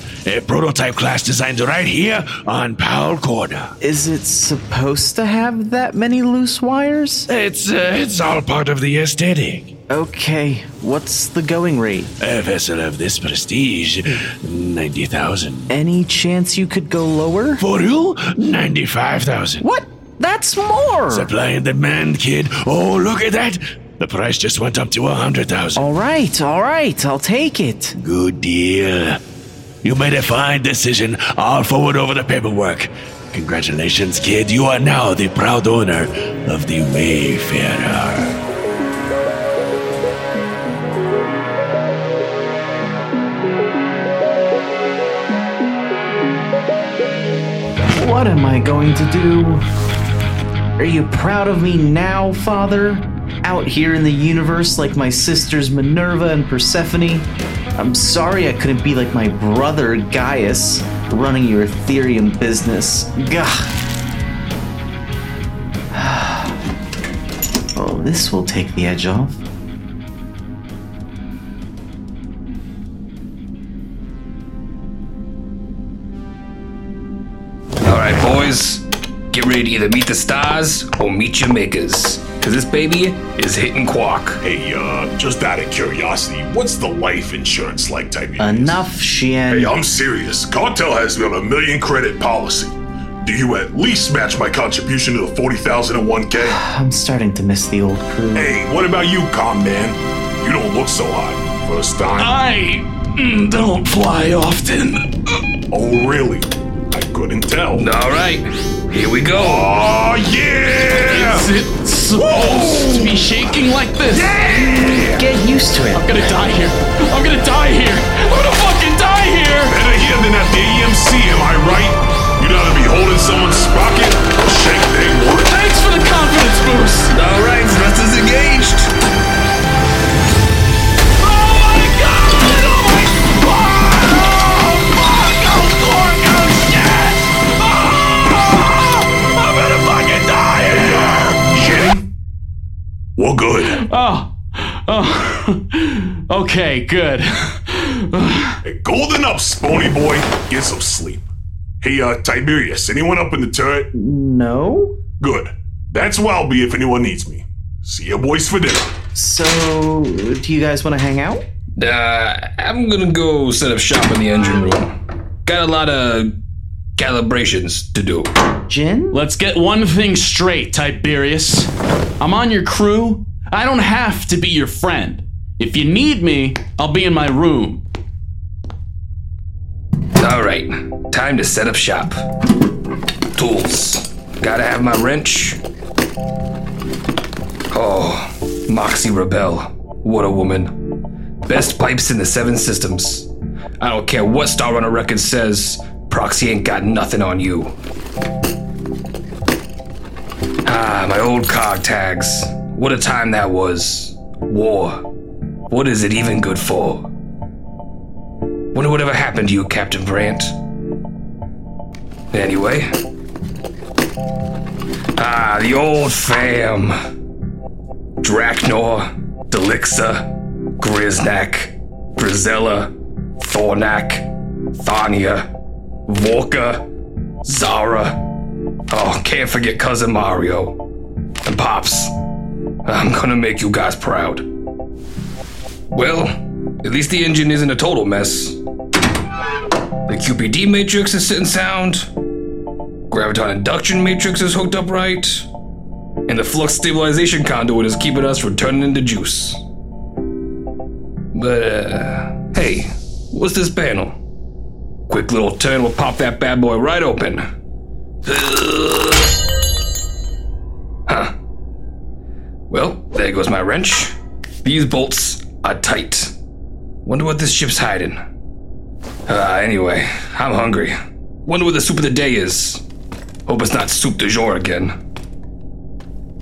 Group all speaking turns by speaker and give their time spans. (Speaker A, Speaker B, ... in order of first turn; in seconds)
Speaker A: 0.3-3.7, 7.3-9.7, 12.2-15.7, 17.6-19.7, 21.1-25.8, 28.0-29.2, 29.8-38.4, 131.2-141.4
Speaker B: 3.8-7.3, 9.9-12.1, 15.7-17.6, 19.6-21.3, 25.8-28.0, 48.0-49.6, 50.8-63.7, 65.9-66.6, 67.8-69.4, 88.4-89.7, 96.4-98.5, 114.5-116.2, 153.9-154.9, 159.2-161.4, 168.7-169.2
Speaker C: 77.8-84.4, 107.7-109.7, 114.4-115.2, 127.1-128.9, 161.8-164.9, 165.5-166.3, 167.0-168.3, 180.2-182.2, 183.3-185.6, 187.7-190.7, 191.5-193.3, 193.8-197.7, 200.7-205.1, 205.7-207.1, 208.7-210.5, 212.3-212.9, 215.2-216.9, 218.2-220.3, 220.8-225.5, 226.1-226.8, 227.4-228.2, 228.9-230.8, 231.4-232.1, 232.8-234.4, 235.9-238.6, 240.1-242.1, 243.1-245.5, 246.3-249.6, 251.3-254.2, 255.1-257.5, 258.2-259.3, 261.1-261.3, 262.7-266.3, 267.0-268.2, 269.3-272.8, 273.5-274.9
Speaker D: 84.4-88.8, 89.5-96.6, 98.3-102.4, 105.7-107.9, 109.3-111.5, 112.1-113.4, 114.1-114.4, 119.7-125.5, 140.8-142.1, 143.2-143.8, 148.6-151.3, 151.8-153.9, 155.2-158.9
Speaker E: 102.2-105.1, 111.0-114.5, 115.9-119.8, 125.3-127.1, 143.7-148.6, 169.1-177.8